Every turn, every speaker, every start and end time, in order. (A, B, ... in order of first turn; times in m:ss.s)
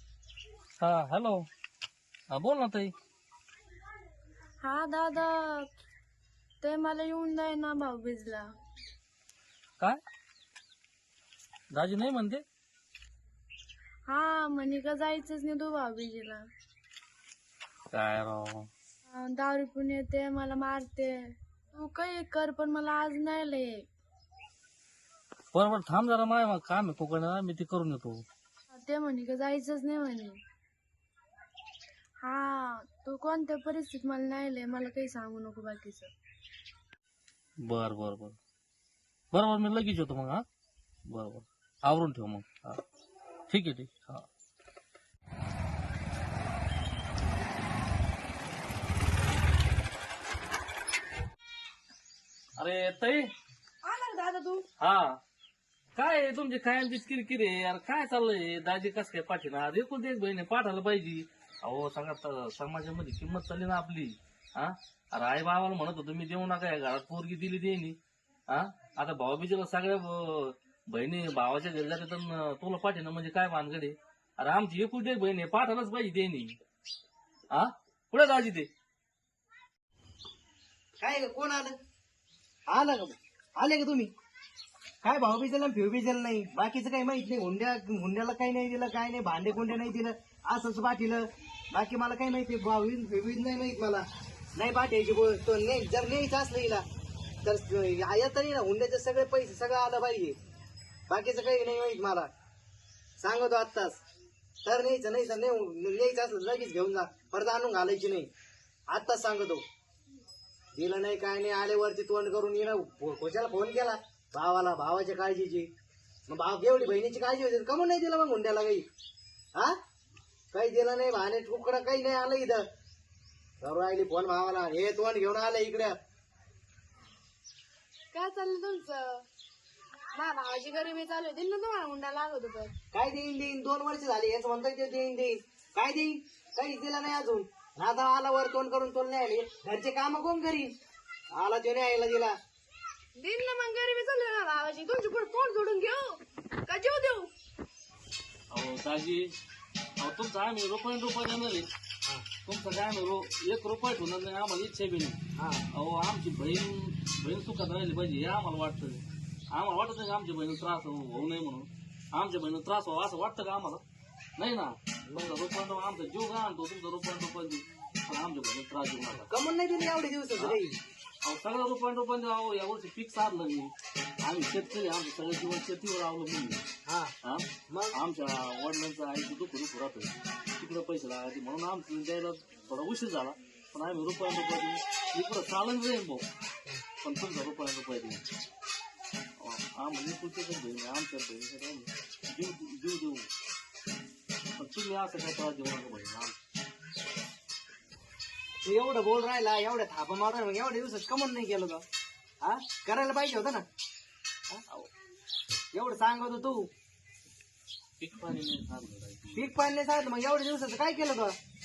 0:00.8-0:01.4 A
0:02.3-0:02.9 A
0:04.6-0:05.7 B
0:06.6-0:08.5 B
0:11.7-0:12.4 A
0:14.1-0:16.4 B
0:17.9-0:18.7 A
0:19.1-0:23.9 B
0:25.5-0:28.2 A
0:28.7-0:30.4 B
0:32.2-0:36.1 B
0:37.6-0:38.4 A
0:39.3-0:40.4 A
0:41.1-0:42.8 A
0:43.5-0:44.3 A
0:52.6-0:53.3 A
0:53.8-0:54.6 B
0:54.8-0:55.2 A
0:55.9-1:08.0 A
1:08.5-1:16.6 A
1:17.5-1:18.7 A
1:21.0-1:21.7 C
1:22.7-1:24.1 C
1:25.0-1:36.8 C
1:37.4-1:40.4 C
1:41.1-1:42.3 C
1:43.2-1:44.0 C
1:44.6-1:48.3 C
1:48.9-1:49.6 C
1:50.7-1:55.7 C
1:56.3-1:58.8 C
2:00.5-2:02.6 C
2:03.6-2:06.0 C
2:08.1-2:09.2 B
2:10.1-2:12.7 B
2:12.9-2:20.7 C
2:21.3-2:22.3 C
2:23.2-2:27.3 B
2:28.5-2:29.2 A
2:30.0-2:31.7 A
2:32.4-2:35.2 A
2:35.4-2:35.6 C
2:35.7-2:43.8 A
2:44.4-2:49.3 A
2:45.1-2:45.3 C
2:49.3-2:50.8 C
2:51.2-2:53.7 A
2:54.2-2:56.6 A
2:56.8-2:57.1 C
2:57.2-3:06.2 A
2:57.7-2:58.0 C
3:07.0-3:08.2 A
3:09.4-3:13.3 A
3:14.6-3:16.3 A
3:18.6-3:21.8 C
3:22.4-3:23.6 C
3:25.7-3:26.7 C
3:28.0-3:29.5 A
3:29.3-3:31.3 C